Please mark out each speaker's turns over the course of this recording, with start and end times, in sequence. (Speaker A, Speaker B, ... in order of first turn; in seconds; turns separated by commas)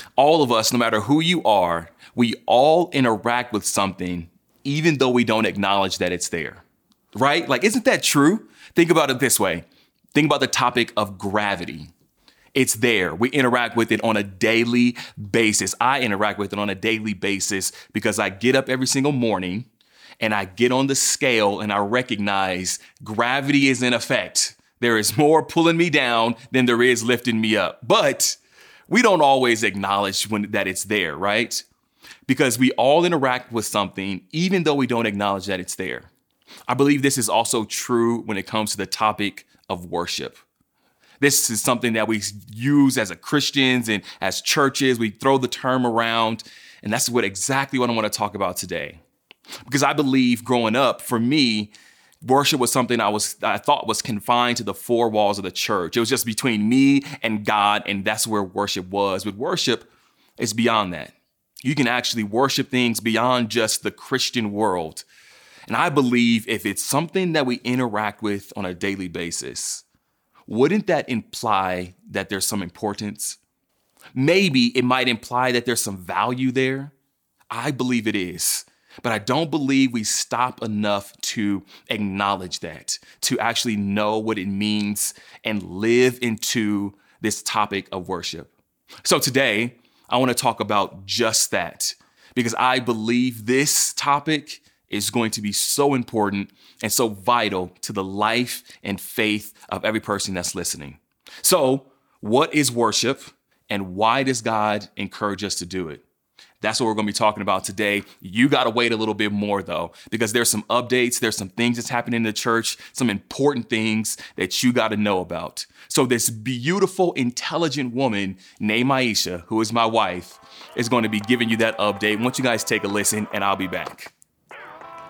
Speaker A: 0.2-11.9, Speaker A: 12.6-19.7, Speaker A: 20.2-28.4, Speaker A: 28.9-31.7, Speaker A: 32.3-36.1, Speaker A: 36.7-40.4, Speaker A: 41.2-49.0, Speaker A: 49.7-51.7, Speaker A: 52.2-65.1, Speaker A: 65.7-69.8, Speaker A: 70.5-73.4, Speaker A: 74.2-76.9, Speaker A: 77.5-88.5, Speaker A: 89.0-106.0, Speaker A: 106.6-124.1